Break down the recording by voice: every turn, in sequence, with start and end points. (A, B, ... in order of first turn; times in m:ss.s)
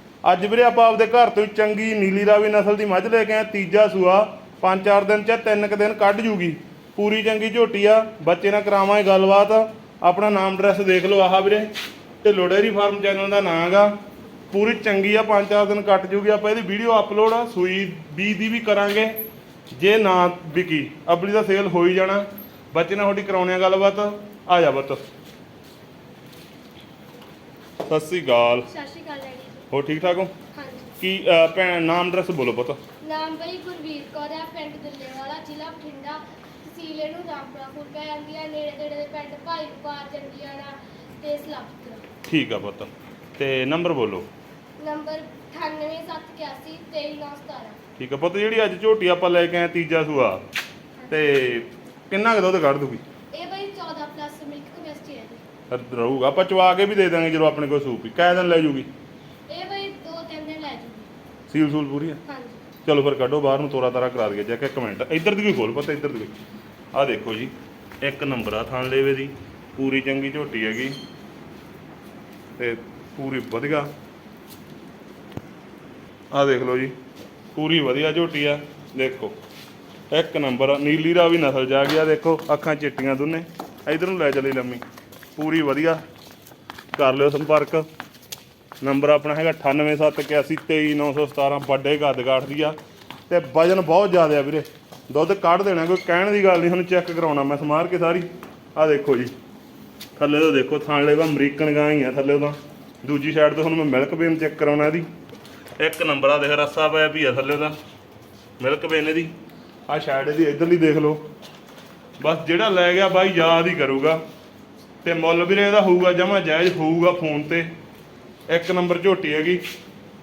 0:00.2-0:11.7 A
0:12.2-0:13.9 A
0:14.5-0:19.2 A
0:19.7-0:25.0 A
0:27.9-0:28.7 A
0:28.7-0:29.6 B
0:29.7-0:30.3 A
0:30.5-0:31.0 B
0:31.0-0:32.8 A
0:33.0-0:42.0 B
0:42.2-0:44.3 A
0:44.8-0:47.8 B
0:48.0-0:50.4 A
0:51.1-0:53.0 A
0:53.3-0:55.4 B
0:55.7-0:58.9 A
0:59.5-1:01.1 B
1:01.5-1:02.2 A
1:02.2-1:02.6 B
1:02.8-1:06.3 A
1:06.9-1:11.0 A
1:12.6-1:13.9 A
1:16.3-1:16.9 A
1:17.5-1:19.3 A
1:20.1-1:24.8 A
1:25.4-1:26.0 A
1:26.9-1:27.8 A
1:28.8-1:32.8 A
1:33.3-1:39.3 A
1:40.2-1:45.0 A
1:45.8-1:47.8 A
1:48.6-1:49.3 A
1:49.9-1:51.2 A
1:52.2-1:54.2 A
1:55.0-1:57.7 A
1:58.5-1:59.6 A